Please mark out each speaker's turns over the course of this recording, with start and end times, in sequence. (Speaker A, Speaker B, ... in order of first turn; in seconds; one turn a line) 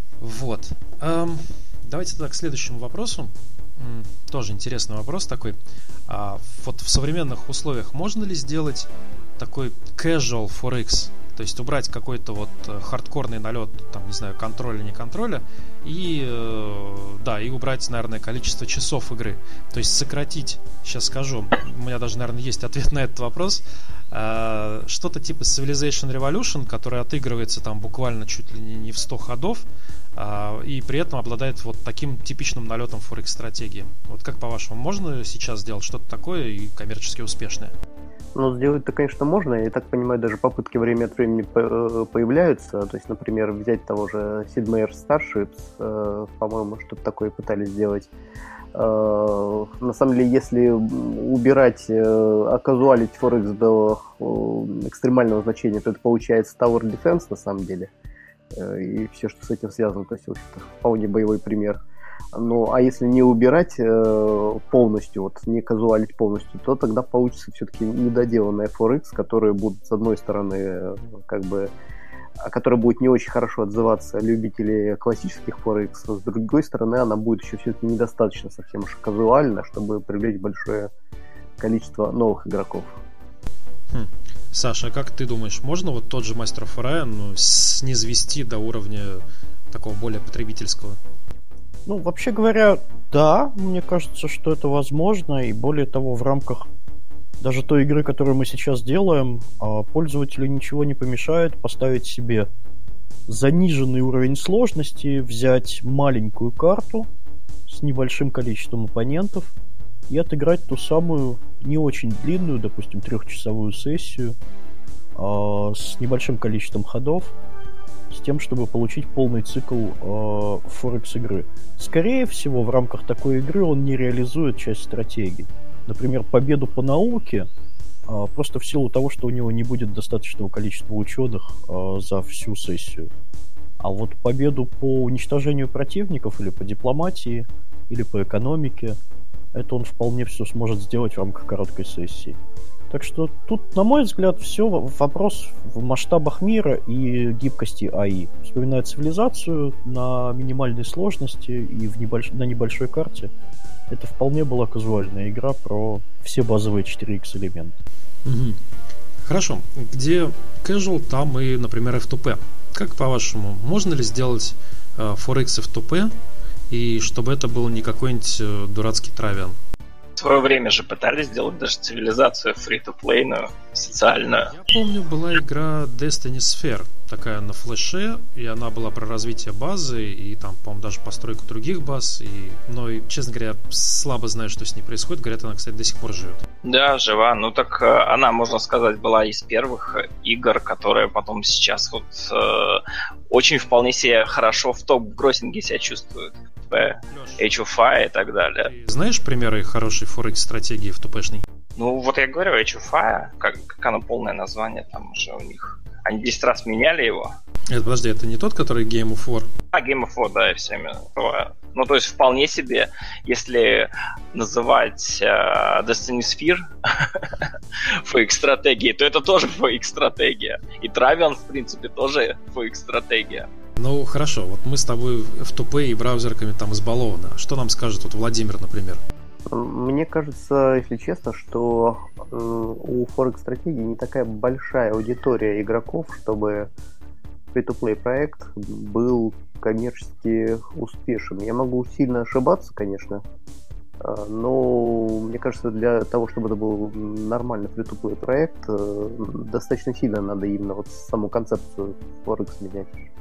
Speaker A: 0.2-37.7
Speaker B: 38.3-48.1
Speaker B: 48.7-57.9
Speaker B: 58.5-61.8
Speaker B: 62.3-71.7
Speaker B: 72.4-80.9
Speaker B: 81.6-82.9
Speaker A: 83.9-91.0
Speaker C: 91.8-96.7
Speaker C: 97.4-102.5
Speaker C: 103.3-107.1
Speaker C: 107.7-109.5
Speaker C: 110.1-114.3
Speaker C: 115.2-117.3
Speaker C: 118.1-127.5
Speaker C: 128.1-133.1
Speaker C: 133.8-139.0
Speaker C: 139.5-142.4
Speaker C: 142.9-153.3
Speaker C: 153.9-157.8
Speaker A: 158.2-158.6
Speaker A: 159.2-166.1
Speaker A: 166.7-169.6
Speaker D: 170.2-174.5
Speaker A: 173.9-186.4
Speaker D: 186.6-198.7
Speaker A: 197.0-197.5
Speaker A: 198.6-201.4
Speaker D: 201.8-207.3
Speaker A: 207.7-209.5
Speaker D: 209.7-223.5
Speaker A: 223.8-229.0
Speaker B: 229.5-236.7
Speaker B: 237.5-243.2
Speaker B: 244.0-252.9